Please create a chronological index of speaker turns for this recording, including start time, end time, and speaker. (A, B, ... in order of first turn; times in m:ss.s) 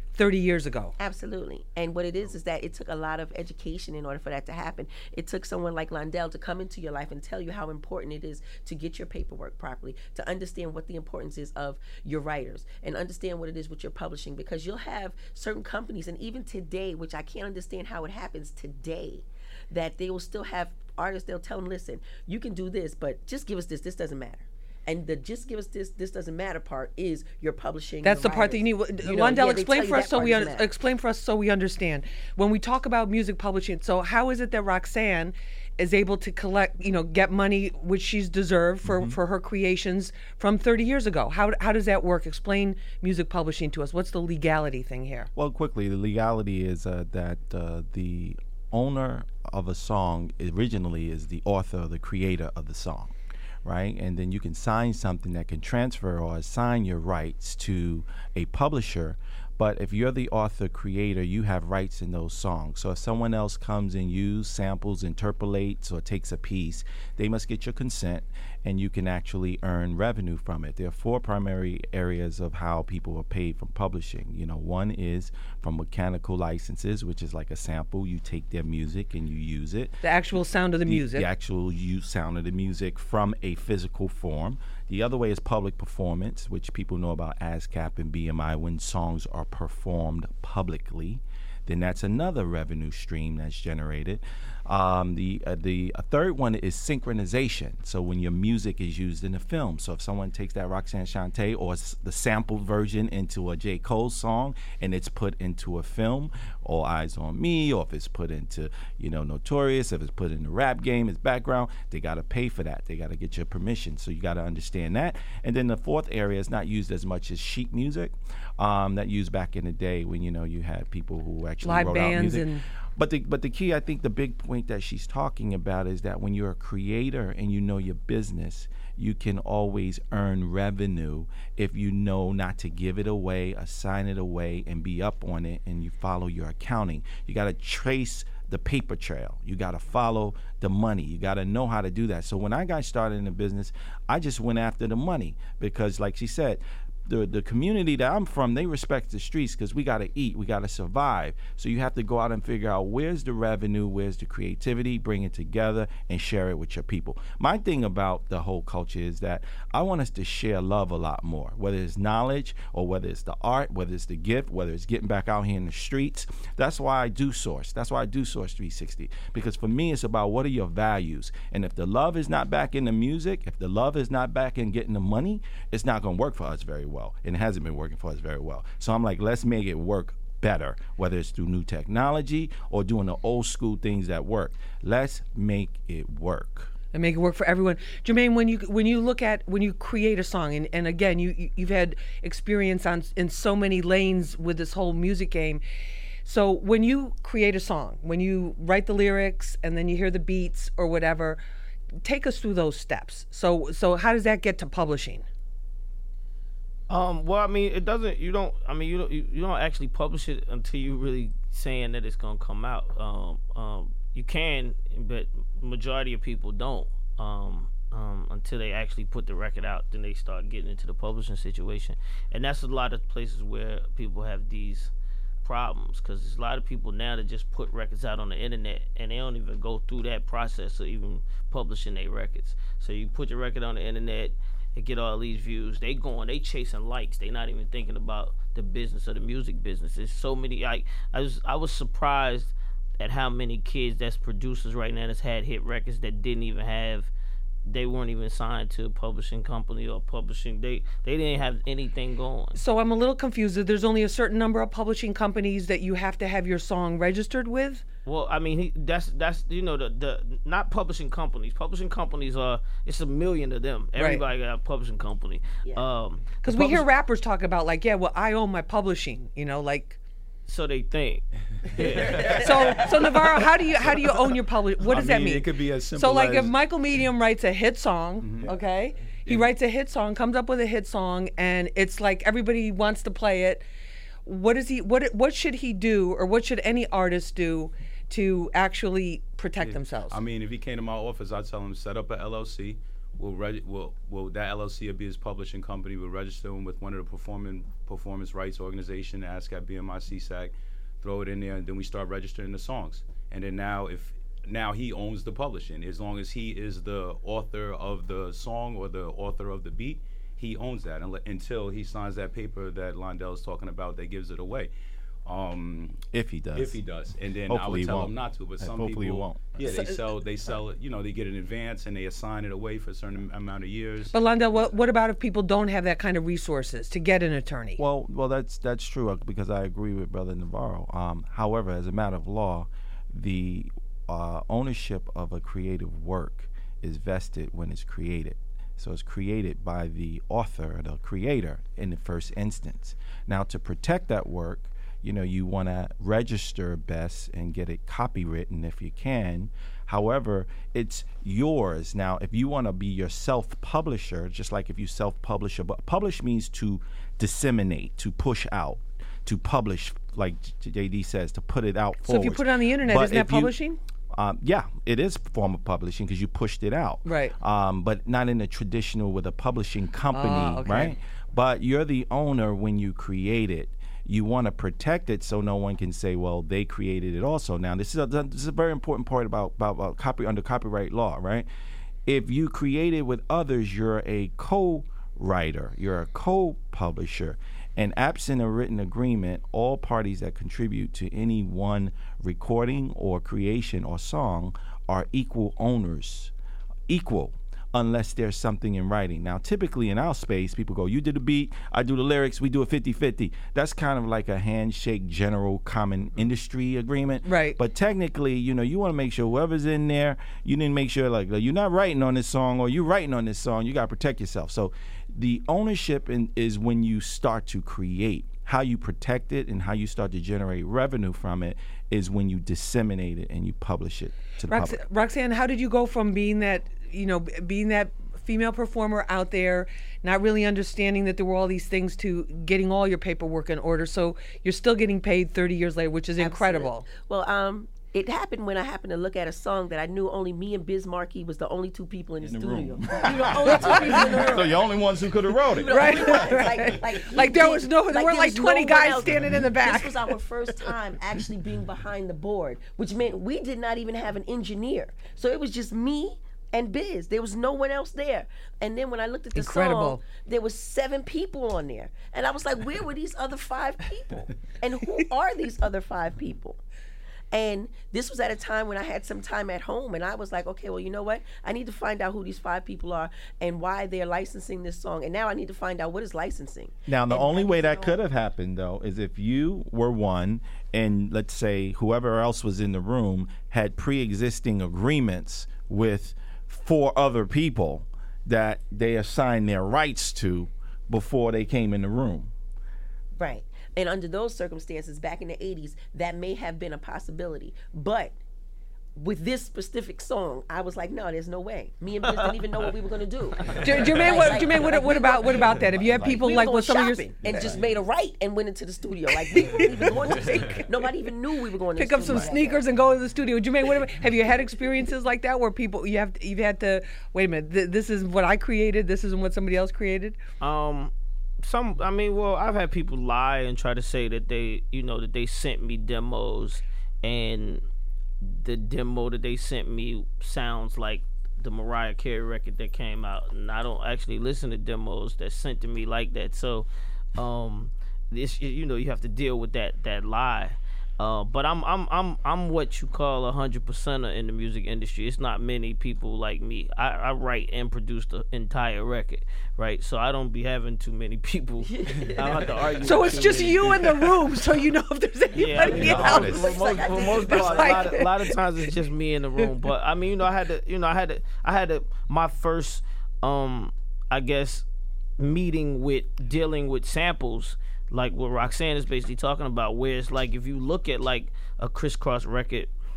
0:00.1-0:00.9 A
0:01.0-0:30.7 B
0:28.0-0:45.3 A
0:38.8-0:39.2 C
0:45.4-1:20.0 C
1:20.0-1:21.3 A
1:20.9-3:06.7 C
2:01.6-2:02.6 A
3:06.9-3:15.6 A
3:16.2-3:21.4 A
3:22.0-3:25.3 A
3:26.9-3:44.9 D
3:45.4-4:07.1 D
4:07.7-4:12.6 D
4:12.6-4:17.8 A
4:18.1-4:26.8 D
4:24.0-4:24.2 A
4:26.4-4:30.0 A
4:30.5-4:32.6 D
4:31.8-4:33.1 E
4:32.3-4:43.6 A
4:34.8-4:36.6 E
4:38.2-4:38.6 E
4:39.3-4:39.5 E
4:44.3-4:50.2 A
4:49.6-5:14.7 E
5:15.3-5:16.0 E
5:16.1-5:16.8 C
5:16.6-5:24.2 E
5:17.5-5:19.6 C
5:19.6-5:20.0 A
5:24.1-5:27.8 A
5:27.8-6:03.6 C
6:02.0-6:03.8 A
6:04.1-6:21.5 C
6:07.0-6:07.4 A
6:10.1-6:11.0 A
6:22.1-6:36.3 C
6:36.9-7:04.8 C
6:47.2-6:47.6 A
7:04.5-7:16.8 A
7:16.2-7:24.7 B
7:22.2-7:26.4 C
7:23.6-7:24.0 A
7:25.4-7:46.6 B
7:25.7-7:30.0 A
7:39.4-7:40.0 A
7:47.3-7:58.0 B
7:56.9-8:12.3 C
8:13.2-8:18.2 B
8:19.0-8:32.6 B
8:22.1-8:22.7 D
8:23.6-8:27.1 A
8:25.6-8:26.4 C
8:27.2-8:27.6 C
8:29.3-8:30.8 A
8:31.8-8:40.2 A
8:40.4-8:47.6 D
8:48.2-9:14.3 D
9:11.6-9:12.4 B
9:12.8-9:16.4 A
9:15.4-9:24.6 D
9:15.7-9:18.0 B
9:15.7-9:16.6 C
9:17.3-9:18.4 A
9:25.2-9:32.7 D